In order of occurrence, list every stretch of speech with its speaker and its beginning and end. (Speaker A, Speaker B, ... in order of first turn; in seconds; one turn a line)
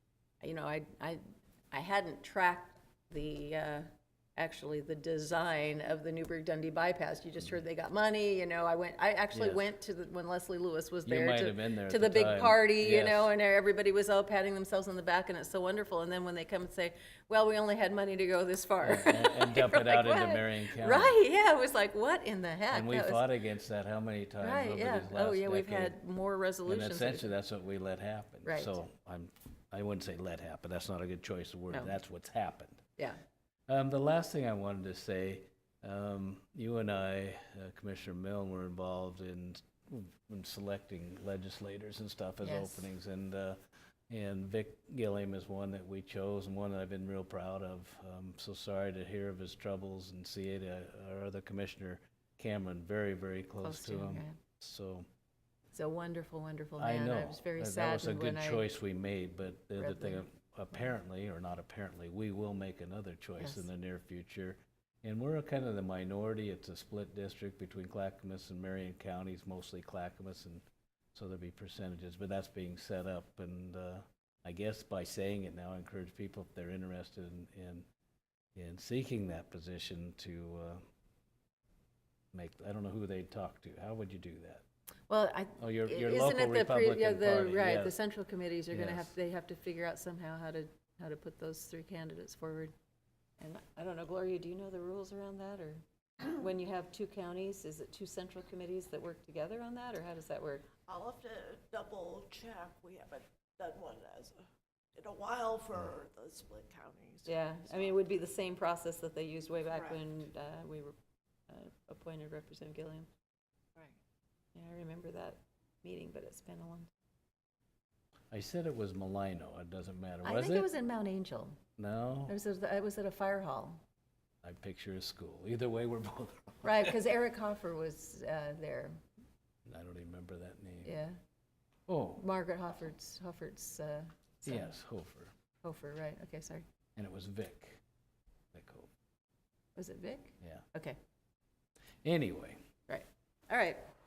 Speaker A: 0.4-1.2
Speaker A: 1.7-3.9
Speaker A: 4.4-23.2
Speaker B: 9.3-9.6
Speaker B: 11.0-13.3
Speaker B: 18.8-21.2
Speaker B: 22.7-25.9
Speaker A: 24.4-27.3
Speaker B: 26.6-32.8
Speaker A: 28.5-28.8
Speaker B: 33.7-55.0
Speaker A: 42.4-42.9
Speaker A: 53.6-54.4
Speaker A: 55.7-58.7
Speaker B: 56.8-70.6
Speaker A: 59.8-60.2
Speaker A: 63.4-63.7
Speaker B: 71.1-77.9
Speaker B: 78.5-80.8
Speaker B: 82.3-84.6
Speaker A: 85.1-92.7
Speaker B: 85.6-88.0
Speaker B: 88.7-89.1
Speaker A: 93.4-100.7
Speaker C: 100.8-107.3
Speaker A: 107.2-111.0
Speaker A: 111.5-113.1
Speaker A: 114.5-116.9
Speaker B: 118.3-120.7
Speaker A: 120.2-121.6
Speaker B: 121.8-122.3
Speaker A: 122.3-123.8
Speaker B: 124.4-127.0
Speaker A: 126.6-129.0
Speaker B: 129.7-130.9
Speaker A: 130.8-131.2
Speaker B: 131.9-132.2
Speaker A: 132.2-134.7
Speaker B: 134.4-135.3
Speaker A: 135.6-136.7
Speaker B: 136.9-137.8
Speaker B: 138.5-138.9
Speaker A: 139.8-141.0
Speaker B: 142.0-142.6
Speaker A: 142.9-143.8